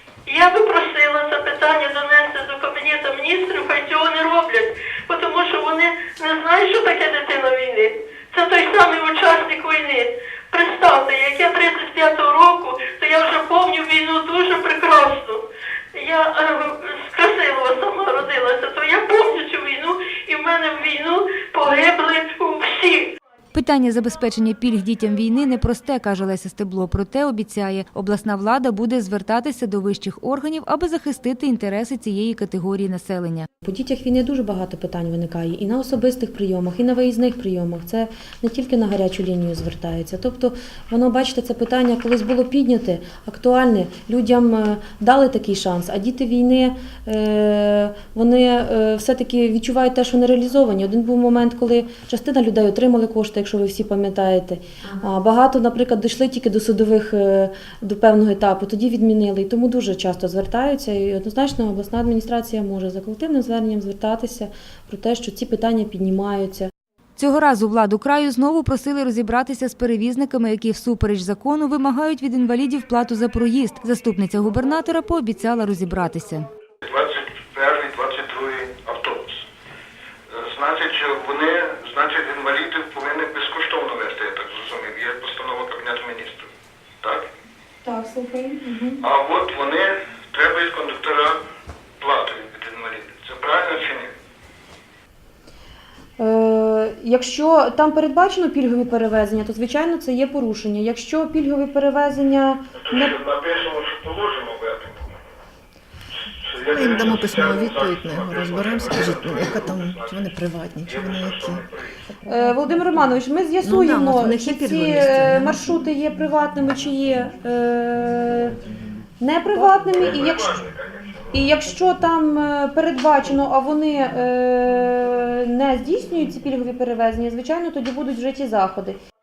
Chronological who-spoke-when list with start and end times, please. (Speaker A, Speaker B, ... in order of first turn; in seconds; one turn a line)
Speaker A: 0.3-15.4
Speaker A: 15.9-23.1
Speaker B: 23.5-33.5
Speaker C: 33.6-66.7
Speaker B: 67.2-76.5
Speaker D: 76.8-79.4
Speaker D: 80.3-86.5
Speaker D: 87.0-87.3
Speaker C: 87.8-89.0
Speaker D: 89.0-91.4
Speaker D: 92.0-94.2
Speaker C: 96.2-103.1
Speaker D: 102.9-105.1
Speaker D: 106.5-110.2
Speaker E: 106.6-111.7
Speaker D: 110.8-111.9
Speaker C: 112.2-118.6
Speaker E: 113.6-115.7
Speaker C: 119.2-120.7
Speaker D: 120.0-120.8
Speaker C: 121.3-129.0